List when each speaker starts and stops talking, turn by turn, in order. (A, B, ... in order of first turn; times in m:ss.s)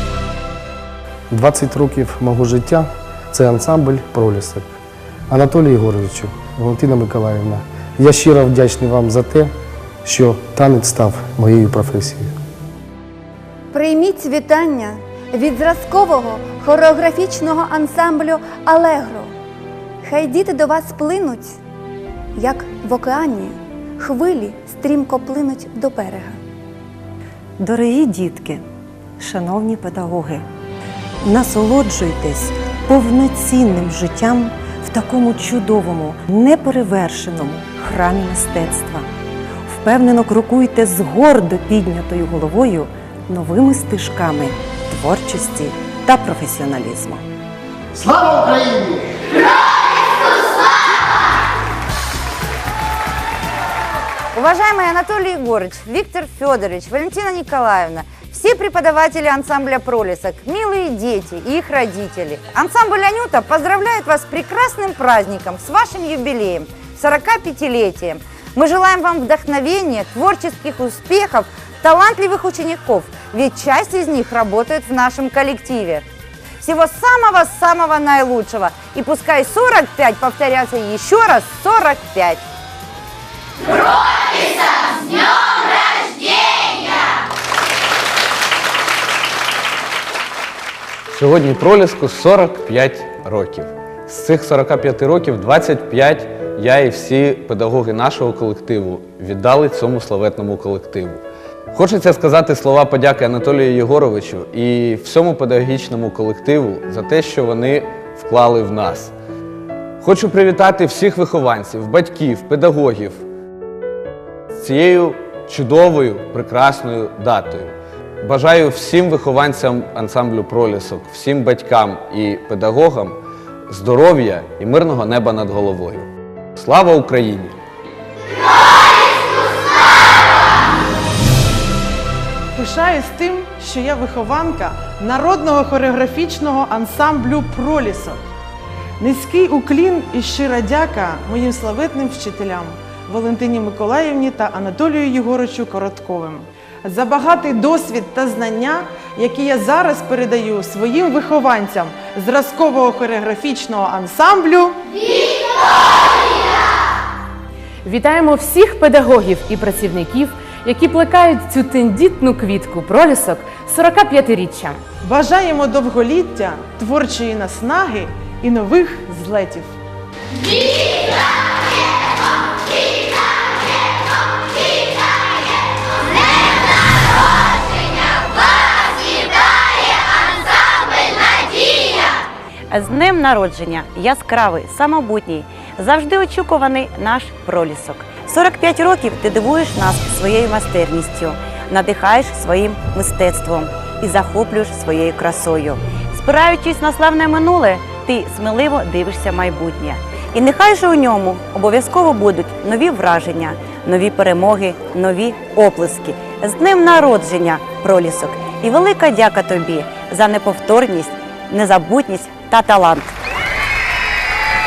0:01.3-0:04.7 A
0:05.3-0:09.5 A
0:10.0-0:12.3 A
0:13.7-0:19.3 B
0:20.0-0:21.6 B
0:22.4-0:26.4 B
0:27.6-0:28.6 C
0:29.2-0:30.4 C
0:31.2-0:39.1 C
0:39.7-0:47.2 C
0:54.3-1:16.0 D
1:16.6-1:22.4 D
1:31.1-1:41.2 E
1:41.7-1:49.1 E
1:50.0-1:53.2 E
1:54.6-2:03.2 E
2:03.7-2:07.6 E
2:12.6-2:18.2 F
2:19.0-2:34.8 F
2:37.8-2:44.8 G
2:45.0-2:49.7 F
3:02.7-3:33.2 H